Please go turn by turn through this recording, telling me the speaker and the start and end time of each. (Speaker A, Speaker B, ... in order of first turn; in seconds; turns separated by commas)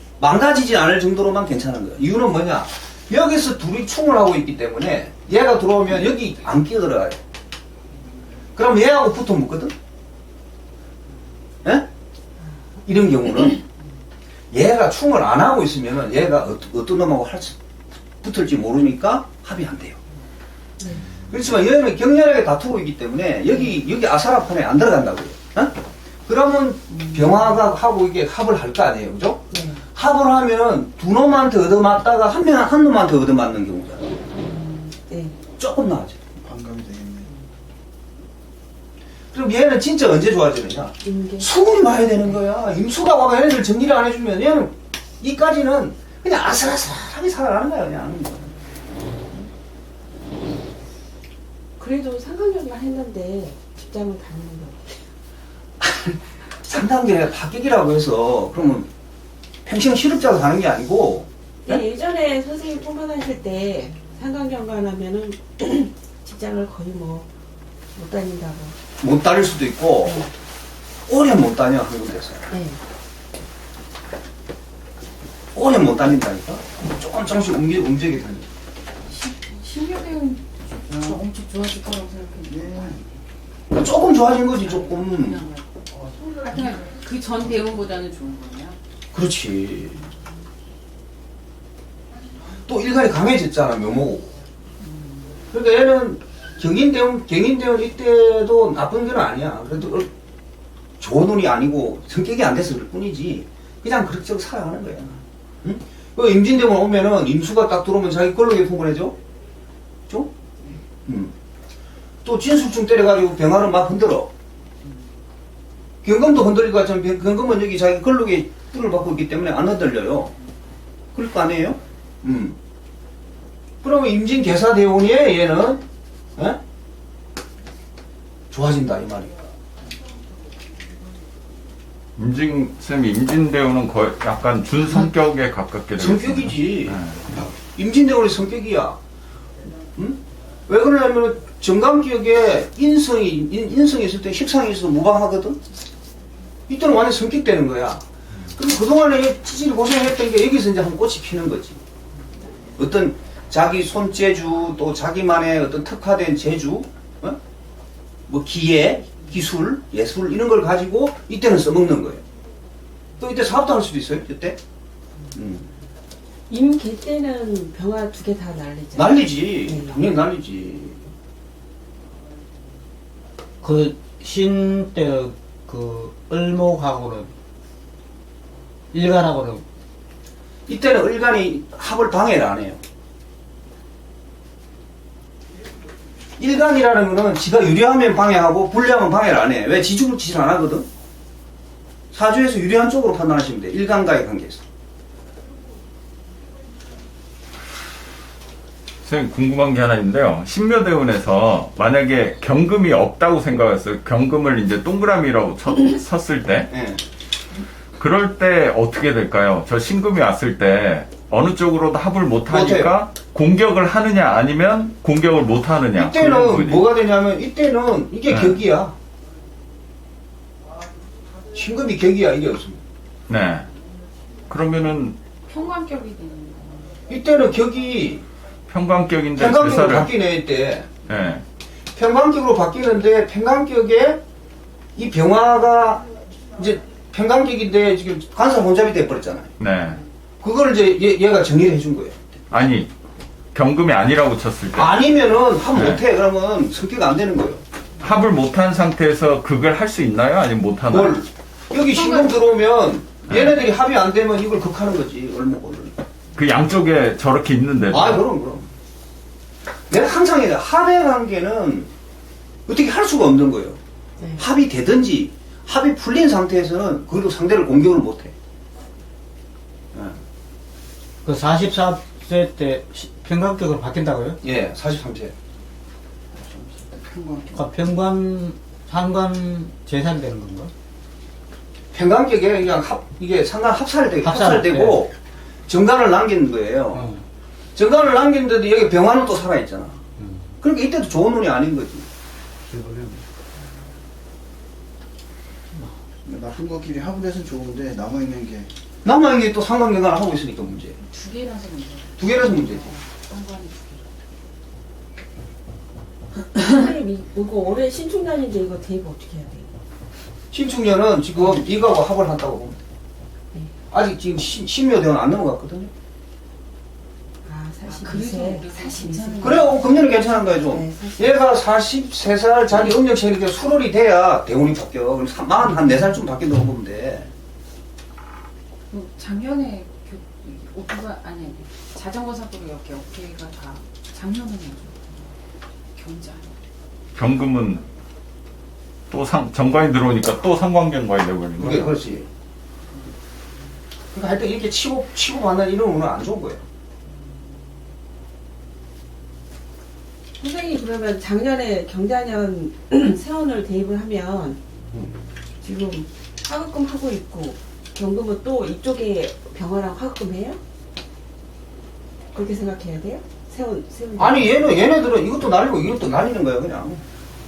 Speaker A: 0.2-7.2, Speaker A: 8.5-9.7, Speaker A: 12.8-13.6, Speaker A: 14.5-17.6, Speaker A: 18.2-20.0, Speaker B: 20.8-21.1, Speaker A: 21.2-29.4, Speaker B: 29.5-29.8, Speaker A: 29.9-34.1, Speaker B: 35.0-35.4, Speaker A: 35.6-36.2, Speaker C: 36.4-37.3, Speaker A: 39.3-48.5, Speaker B: 41.0-41.5, Speaker B: 51.8-55.0, Speaker A: 55.8-58.9, Speaker A: 59.6-61.8, Speaker B: 61.6-67.3, Speaker B: 67.9-68.8, Speaker A: 69.0-70.3, Speaker A: 71.1-72.5, Speaker B: 72.5-72.8, Speaker A: 75.5-78.5, Speaker D: 79.1-83.1, Speaker C: 80.9-81.2, Speaker C: 82.5-83.1, Speaker A: 83.7-85.4, Speaker D: 84.6-85.7, Speaker D: 86.3-88.8, Speaker A: 89.1-90.0, Speaker A: 92.7-94.3, Speaker A: 95.5-100.1, Speaker A: 101.0-109.2, Speaker A: 111.0-111.3, Speaker A: 112.2-114.3, Speaker A: 116.0-120.3, Speaker A: 121.1-122.5, Speaker A: 123.8-125.8, Speaker A: 128.5-129.3, Speaker E: 132.2-137.3, Speaker A: 136.0-139.0, Speaker A: 139.9-145.6, Speaker A: 146.7-151.8, Speaker A: 152.8-157.4, Speaker A: 158.3-162.2, Speaker A: 163.2-164.6, Speaker A: 165.3-165.7, Speaker B: 166.5-170.0, Speaker A: 168.9-171.0, Speaker F: 173.6-177.3, Speaker F: 178.9-179.6, Speaker A: 180.7-182.8, Speaker A: 186.4-190.9, Speaker A: 192.1-194.6, Speaker E: 199.0-206.7, Speaker A: 206.7-207.0, Speaker E: 208.0-216.9, Speaker A: 212.5-212.9, Speaker A: 215.9-218.9, Speaker E: 218.3-218.6, Speaker A: 221.5-222.8, Speaker E: 223.3-223.7, Speaker E: 224.5-225.2, Speaker D: 225.4-226.9, Speaker A: 227.1-228.2, Speaker E: 228.7-230.1, Speaker A: 229.4-231.0, Speaker E: 231.0-231.4, Speaker A: 231.9-234.2, Speaker A: 234.9-239.5, Speaker E: 239.6-240.0, Speaker A: 240.4-242.3, Speaker E: 242.5-242.9, Speaker E: 243.5-245.0, Speaker A: 244.8-247.6, Speaker E: 245.7-246.0, Speaker E: 248.0-251.2, Speaker A: 250.9-255.9, Speaker D: 251.8-252.4, Speaker E: 253.3-253.6, Speaker E: 256.3-258.2, Speaker A: 257.9-258.6, Speaker A: 259.9-261.9, Speaker A: 262.7-263.8, Speaker A: 264.4-268.3, Speaker A: 269.9-270.2, Speaker F: 271.2-274.4, Speaker A: 274.4-275.3, Speaker C: 276.3-277.6, Speaker F: 277.5-280.7, Speaker A: 281.9-285.1, Speaker F: 284.2-285.0, Speaker A: 285.7-287.1, Speaker F: 286.9-287.2, Speaker A: 287.8-290.0, Speaker A: 290.6-292.1, Speaker F: 292.7-293.2, Speaker C: 296.2-298.7, Speaker A: 299.0-301.0, Speaker D: 301.0-304.1, Speaker A: 302.2-302.8, Speaker B: 306.6-309.7, Speaker A: 310.5-312.8, Speaker A: 313.9-315.9, Speaker B: 317.4-321.4, Speaker D: 317.9-320.5, Speaker A: 319.4-327.3, Speaker D: 328.9-335.3, Speaker D: 335.9-336.6, Speaker E: 337.1-337.8, Speaker E: 339.1-342.0, Speaker A: 341.6-342.3, Speaker A: 344.1-346.6, Speaker B: 350.4-354.6, Speaker B: 355.6-360.6, Speaker B: 362.3-364.6, Speaker A: 364.2-367.0